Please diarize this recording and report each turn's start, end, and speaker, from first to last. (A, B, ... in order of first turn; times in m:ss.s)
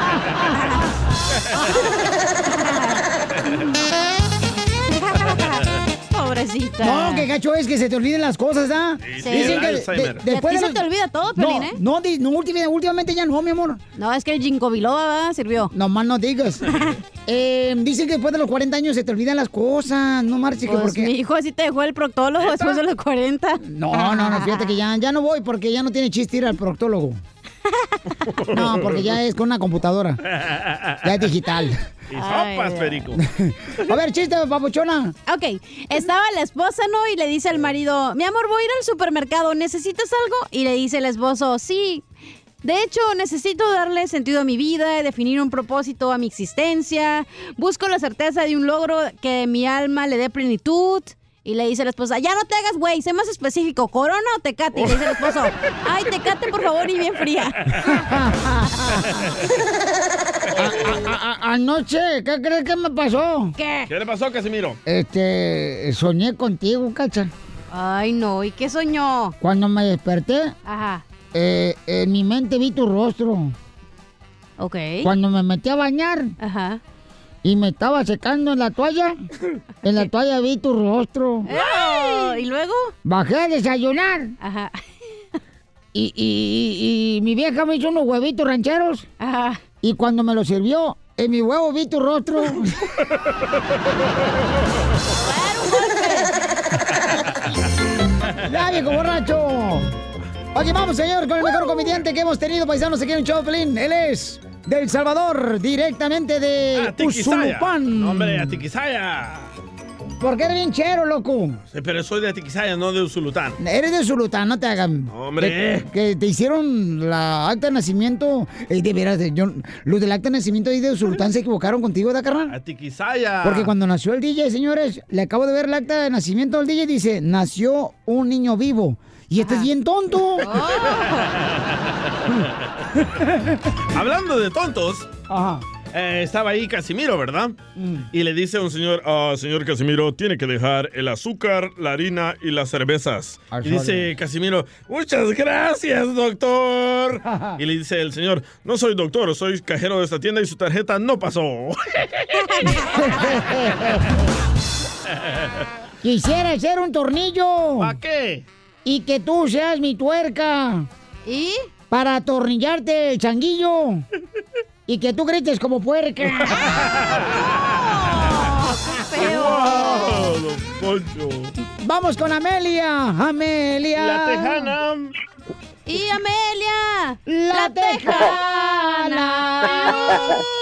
0:00.5-0:00.9 A
0:01.6-0:01.9 A
0:02.5-0:03.0 A
0:04.9-0:07.3 A
0:06.8-0:10.8 B
0:09.0-0:10.2 C
0:09.2-0:09.6 A
0:10.2-0:11.8 A
0:11.4-0:13.8 B
0:14.0-0:15.7 A
0:15.7-0:16.6 B
0:17.2-0:21.1 B
0:20.6-0:24.7 A
0:22.4-0:22.8 C
0:23.6-0:27.2 B
0:28.4-0:29.1 C
0:28.5-0:30.2 B
0:30.3-0:31.0 C
0:31.0-0:31.8 B
0:32.1-0:33.2 C
0:32.1-0:33.1 A
0:33.2-0:35.2 B
0:35.2-0:42.0 A
0:42.6-0:57.8 A
0:54.8-0:55.3 C
0:57.8-0:59.2 B
1:00.5-1:03.5 B
1:03.6-1:03.9 A
1:03.9-1:04.8 C
1:04.8-1:07.3 B
1:07.7-1:09.3 A
1:09.4-1:10.6 B
1:10.6-1:11.0 A
1:11.3-1:13.5 B
1:14.6-1:15.1 A
1:15.0-1:16.3 B
1:16.4-1:16.8 A
1:17.4-1:19.2 B
1:19.8-1:21.5 B
1:21.4-1:22.9 A
1:23.0-1:24.3 B
1:24.4-1:24.8 A
1:25.9-1:29.1 B
1:29.2-1:29.6 A
1:29.8-1:32.8 B
1:35.1-1:36.3 A
1:38.4-1:39.9 B
1:40.5-1:48.6 B
1:46.7-1:49.5 C
1:50.2-1:51.6 B
1:51.7-1:53.6 C
1:53.6-2:02.6 B
1:55.1-1:55.8 C
2:02.5-2:03.7 C
2:03.4-2:10.5 B
2:09.4-2:09.7 A
2:10.4-2:11.3 A
2:13.9-2:15.1 C
2:15.3-2:15.6 B
2:15.9-2:17.5 C
2:17.8-2:18.1 B
2:18.1-2:32.7 C
2:23.5-2:24.1 B
2:27.2-2:27.6 B
2:32.5-2:32.9 A
2:32.8-2:34.1 B
2:36.0-2:37.9 B
2:37.8-2:38.4 C
2:38.8-2:40.9 B
2:41.2-2:41.7 A
2:41.9-2:44.0 B
2:44.9-2:46.8 B
2:46.4-2:47.4 C
2:47.8-2:50.1 A
2:49.2-2:51.5 C
2:49.5-2:50.1 B
2:51.8-2:54.7 B
2:54.0-2:55.1 C
2:55.8-3:00.2 A
2:57.3-3:00.2 B